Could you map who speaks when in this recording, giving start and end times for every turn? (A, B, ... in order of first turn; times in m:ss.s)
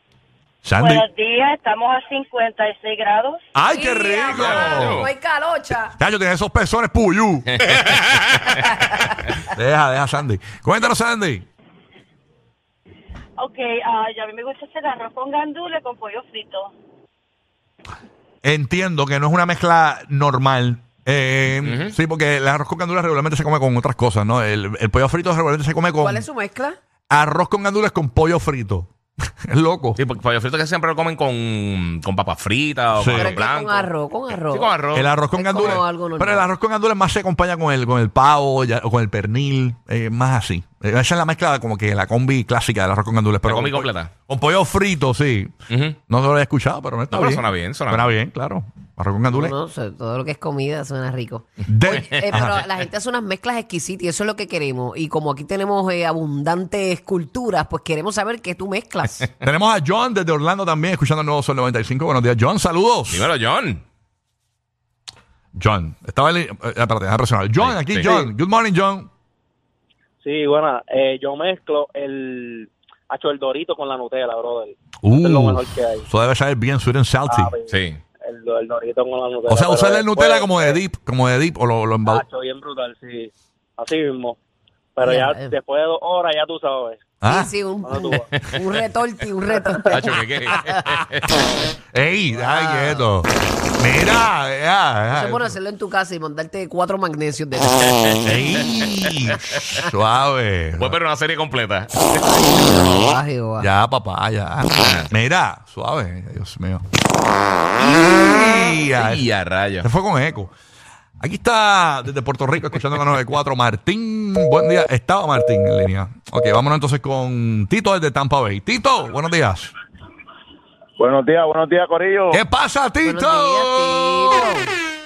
0:00.6-0:01.1 A
0:00.8-0:03.4 B
0:03.6-0:05.1 A
0:03.7-0:05.9 C
0:04.2-0:05.1 D
0:06.0-0:08.8 A
0:07.6-0:08.4 D
0:09.5-0:11.5 A
0:13.4-0:16.7 B
0:18.4-0:26.3 A
0:21.6-0:21.9 D
0:26.0-0:26.8 C
0:27.1-0:28.9 A
0:29.4-0:30.0 A
0:30.0-0:33.9 D
0:32.9-0:33.3 A
0:33.1-0:34.7 C
0:34.4-0:35.8 D
0:34.9-0:45.5 A
0:35.3-0:36.5 C
0:43.4-0:44.1 D
0:45.7-0:46.0 D
0:46.1-0:49.6 A
0:47.1-0:48.1 D
0:49.3-0:59.3 C
0:51.7-0:52.7 A
0:59.4-1:03.3 A
1:03.1-1:03.8 D
1:05.6-1:09.1 A
1:07.6-1:08.2 D
1:10.2-1:16.1 E
1:15.0-1:17.6 A
1:17.3-1:20.8 E
1:17.7-1:18.0 D
1:19.5-1:22.2 A
1:22.0-1:24.4 E
1:25.0-1:27.0 E
1:25.0-1:25.6 C
1:27.2-1:27.6 A
1:27.3-1:30.7 C
1:27.8-1:28.3 E
1:29.9-1:31.3 D
1:31.9-1:35.6 A
1:32.4-1:33.0 C
1:35.1-1:38.2 C
1:38.2-1:41.0 A
1:40.8-1:42.2 D
1:42.3-1:43.7 C
1:43.6-1:46.8 A
1:44.8-1:45.1 D
1:47.8-1:49.3 A
1:48.8-1:49.9 D
1:49.8-1:50.5 A
1:51.2-1:59.7 A
2:01.0-2:02.4 E
2:02.3-2:04.6 A
2:03.0-2:04.7 C